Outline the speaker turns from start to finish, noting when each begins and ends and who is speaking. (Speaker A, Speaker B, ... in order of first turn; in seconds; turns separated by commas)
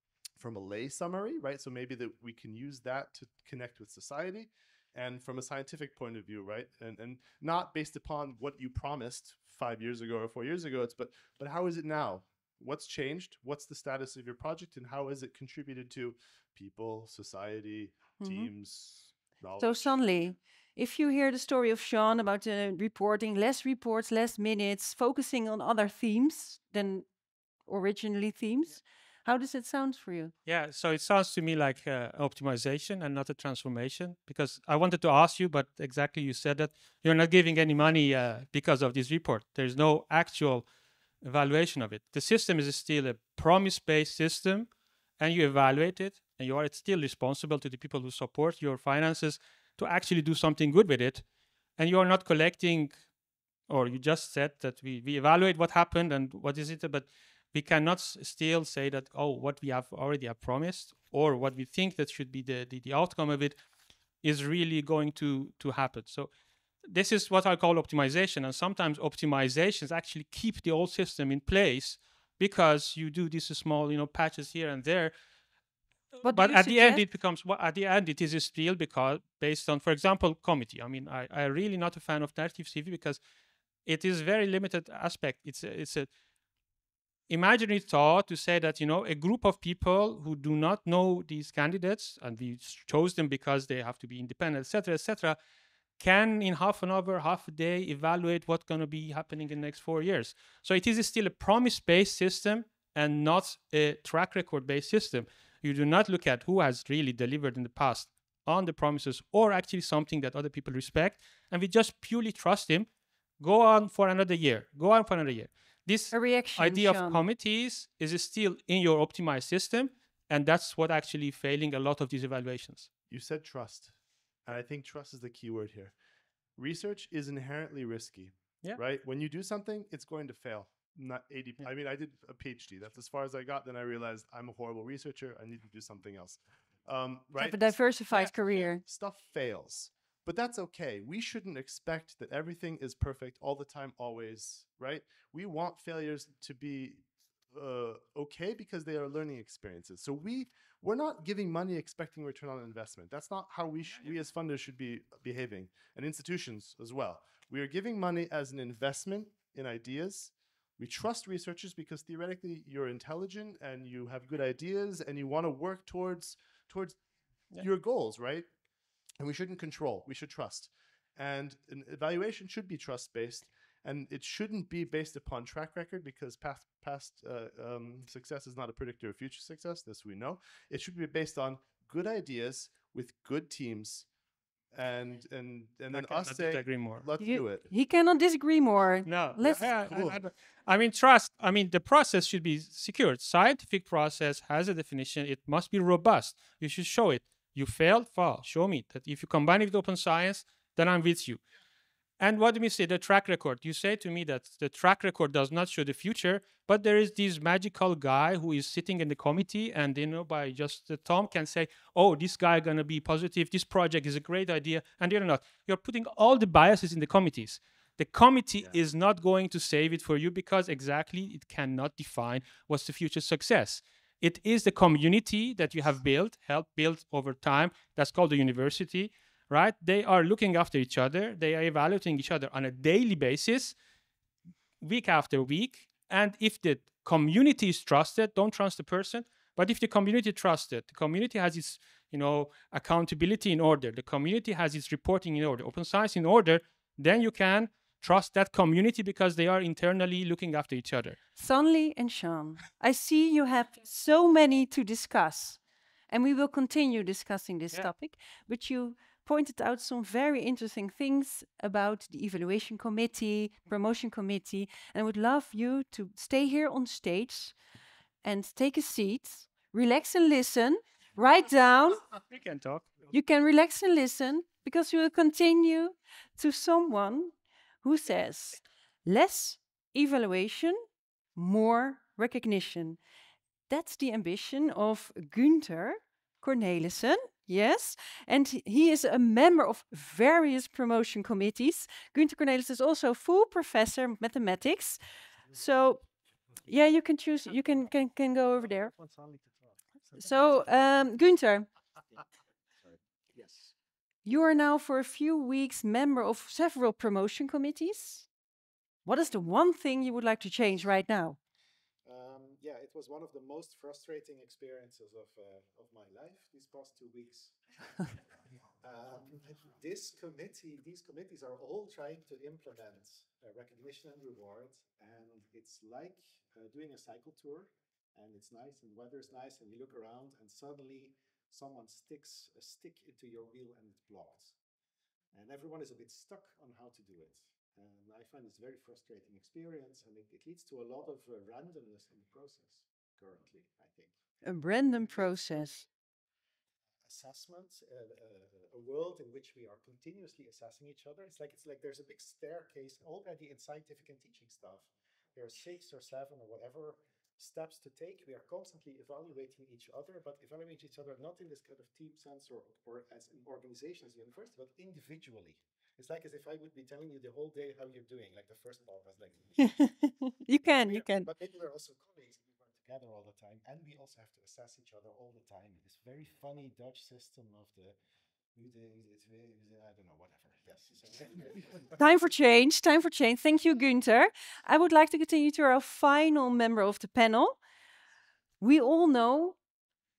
Speaker A: 0.4-20.0, Speaker B: 18.2-18.5, Speaker B: 19.6-30.3, Speaker C: 30.4-53.1, Speaker C: 53.7-66.3, Speaker C: 66.8-75.2, Speaker B: 76.2-77.1, Speaker C: 76.2-83.2, Speaker C: 83.8-86.1, Speaker C: 87.3-95.4, Speaker C: 96.0-122.9, Speaker B: 116.1-117.2, Speaker A: 123.1-126.0, Speaker A: 126.5-168.5, Speaker B: 137.4-138.8, Speaker A: 169.2-184.1, Speaker A: 184.7-187.7, Speaker C: 185.9-187.2, Speaker B: 187.2-189.7, Speaker C: 189.1-201.5, Speaker A: 189.4-190.2, Speaker C: 202.2-233.8, Speaker C: 234.8-251.2, Speaker B: 251.4-267.6, Speaker B: 268.2-272.2, Speaker C: 272.3-272.9, Speaker B: 273.1-280.8, Speaker B: 281.4-283.0, Speaker B: 283.7-295.0, Speaker B: 295.5-296.1, Speaker B: 296.7-298.9, Speaker D: 298.5-300.6, Speaker B: 300.2-301.7, Speaker D: 302.8-303.8, Speaker B: 304.2-308.3, Speaker B: 309.1-311.4, Speaker D: 312.1-317.6, Speaker D: 318.8-334.6, Speaker D: 335.3-344.2, Speaker B: 344.4-345.9, Speaker D: 345.0-345.9, Speaker D: 347.0-369.8, Speaker B: 369.6-371.3, Speaker D: 370.6-378.0, Speaker D: 378.5-382.0, Speaker B: 382.0-387.6, Speaker B: 388.6-389.6